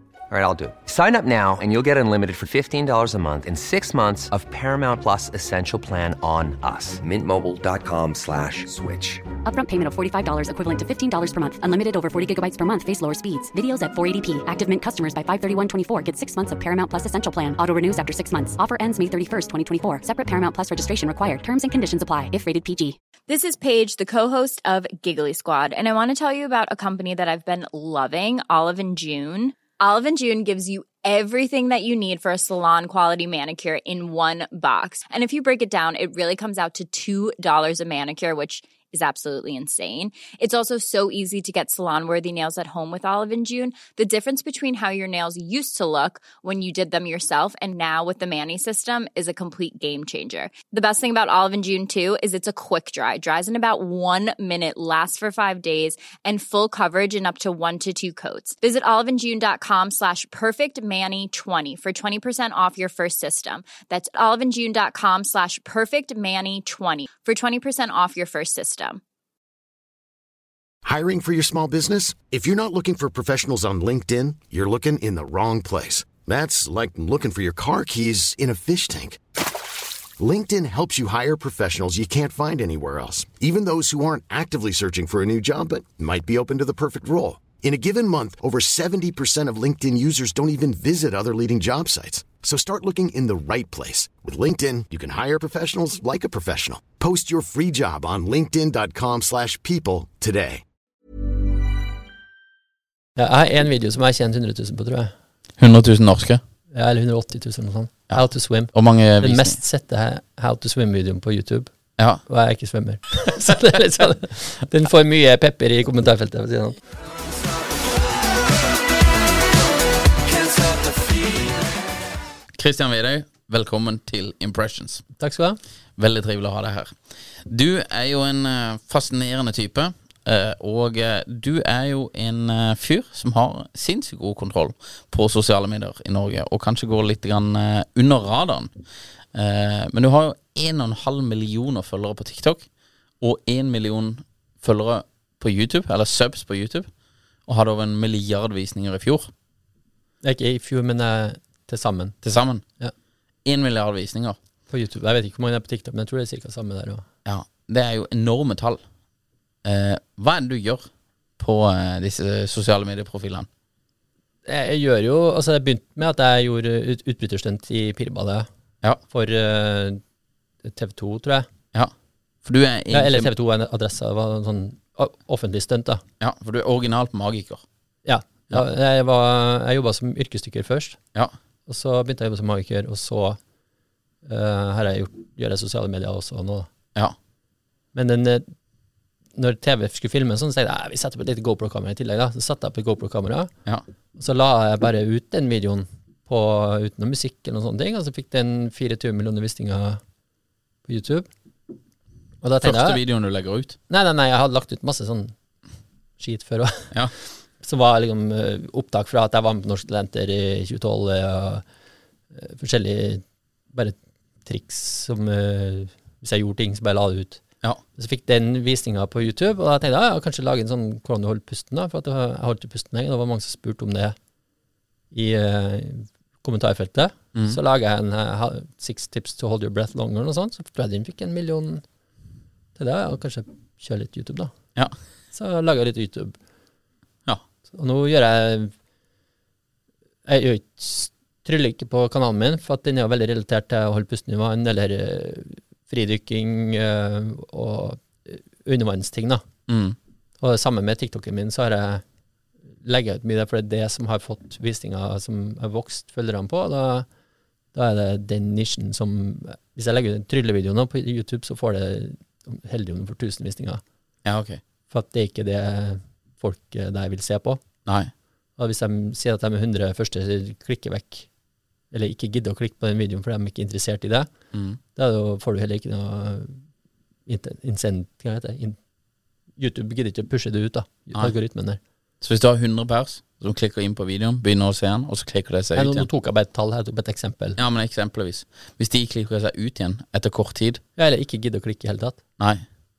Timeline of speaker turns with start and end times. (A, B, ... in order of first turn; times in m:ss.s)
0:00.3-0:09.2 A
0:09.4-0:23.0 B
0:23.3-1:09.0 C
1:10.8-1:19.2 D
1:20.2-1:40.6 D
1:43.2-1:45.1 E
1:45.6-1:46.4 F
1:46.7-1:51.7 E
1:48.1-1:49.6 F
1:52.2-1:56.8 E
2:02.6-2:05.0 F
2:05.2-2:05.6 E
2:06.0-2:18.7 F
2:19.3-2:22.6 F
2:23.2-2:26.9 F
2:27.5-2:29.3 F
2:30.2-2:32.2 E
2:32.2-2:32.6 F
2:33.4-2:34.4 F
2:34.7-2:37.0 E
2:37.2-2:38.8 F
2:39.6-2:40.9 F
2:41.4-2:43.5 F
2:44.5-2:48.5 E
2:49.1-2:50.0 E
2:50.6-2:51.5 E
2:52.4-2:53.3 F
2:52.9-2:56.0 E
2:56.2-2:57.6 F
2:58.0-3:01.0 E
3:01.7-3:03.4 E
3:04.2-3:06.7 E
3:07.9-3:08.5 E
3:09.4-3:13.5 E
3:14.2-3:20.0 E
3:20.9-3:21.3 E
3:22.4-3:23.0 E
3:22.6-3:23.8 F
3:23.9-3:25.3 E
3:26.2-3:26.9 E
3:27.6-3:31.6 E
3:32.4-3:37.4 E
3:38.0-3:44.2 E
3:45.1-3:51.8 E
3:52.8-3:54.5 E
3:55.3-3:56.4 E
3:57.7-3:58.7 E
4:00.2-4:09.4 E
4:09.7-4:10.0 F
4:10.4-4:12.0 E
4:12.8-4:17.0 E
4:17.7-4:23.8 E
4:24.2-4:24.6 F
4:24.9-4:27.6 E
4:27.8-4:28.1 F
4:28.6-4:31.3 E
4:31.9-4:34.3 E
4:34.5-4:34.8 F
4:35.0-4:36.6 E
4:37.3-4:38.8 E
4:39.6-4:41.8 E
4:42.2-4:46.1 F
4:45.7-4:47.6 E
4:47.6-4:50.8 F
4:51.0-4:52.2 E
4:52.4-4:52.6 F